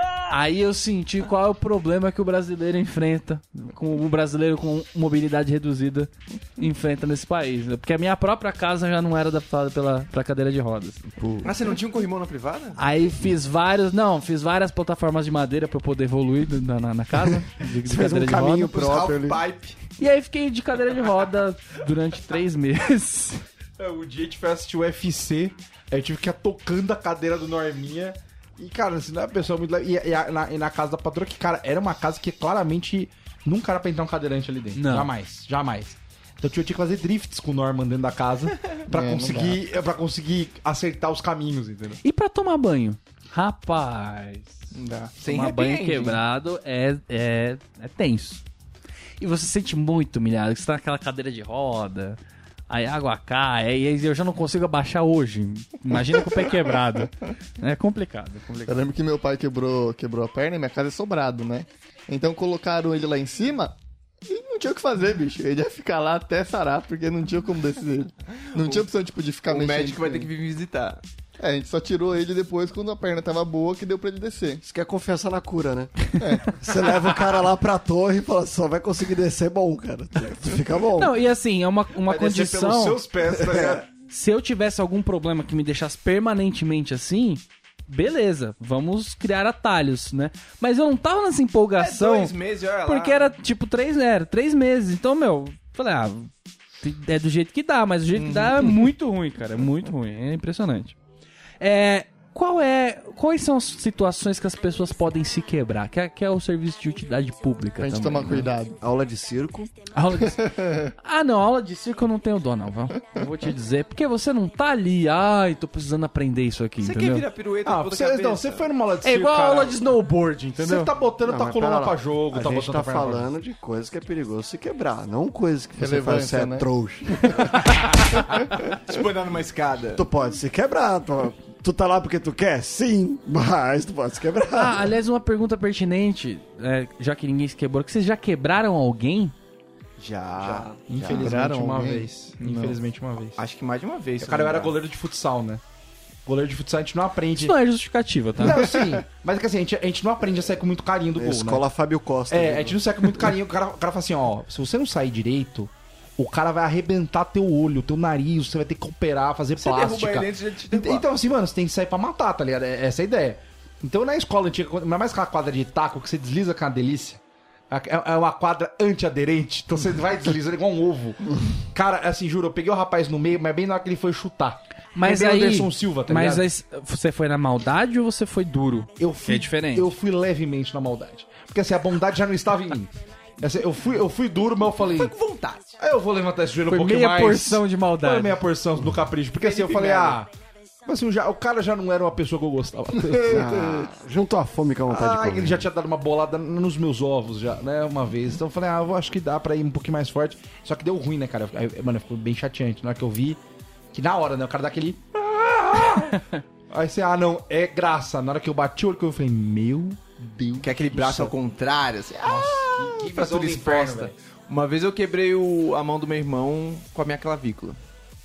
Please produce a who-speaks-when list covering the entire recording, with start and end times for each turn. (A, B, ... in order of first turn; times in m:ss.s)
0:00.3-0:11.1 A
0:11.4-0:12.8 B
0:12.8-0:18.7 A
0:17.7-0:19.4 C
0:18.8-0:19.8 B
0:18.9-0:19.4 D
0:20.0-0:23.4 A
0:23.8-0:42.0 D
0:34.7-0:35.1 A
0:38.9-0:39.6 E
0:42.0-0:44.6 A
0:44.9-0:46.2 B
0:45.2-0:48.4 A
0:49.2-0:58.8 A
0:58.7-1:03.8 E
1:04.3-1:10.3 E
1:08.6-1:08.9 B
1:09.5-1:11.0 B
1:11.4-1:14.6 E
1:14.6-1:21.2 C
1:16.2-1:16.6 E
1:21.0-1:23.0 A
1:22.0-1:23.9 D
1:24.1-1:36.3 A
1:31.8-1:33.4 B
1:36.8-1:41.0 A
1:41.6-1:48.5 A
1:47.8-1:48.8 E
1:48.8-1:49.7 C
1:49.9-1:57.2 A
1:50.2-1:50.9 E
1:56.8-1:58.7 B
1:57.6-1:59.8 D
1:59.0-2:00.9 A
2:00.6-2:03.3 D
2:01.2-2:07.5 C
2:05.8-2:06.7 E
2:08.7-2:10.0 B
2:10.0-2:14.9 C
2:14.5-2:19.4 A
2:20.0-2:21.3 B
2:20.4-2:23.4 D
2:21.1-2:22.7 E
2:23.4-2:24.8 B
2:24.2-2:25.6 D
2:26.3-2:27.6 D
2:27.4-2:28.7 A
2:28.4-2:31.6 D
2:31.2-2:32.8 C
2:32.3-2:56.4 D
2:39.6-2:41.1 B
2:55.0-2:59.9 A
2:59.0-3:05.1 D
3:04.8-3:05.8 B
3:05.8-3:10.3 D
3:06.7-3:08.4 A
3:09.4-3:10.2 B
3:10.8-3:13.9 D
3:13.2-3:15.7 C
3:14.9-3:23.4 D
3:23.9-3:30.2 D
3:30.4-3:31.2 E
3:30.6-3:37.8 B
3:31.0-3:31.3 D
3:32.2-3:34.1 D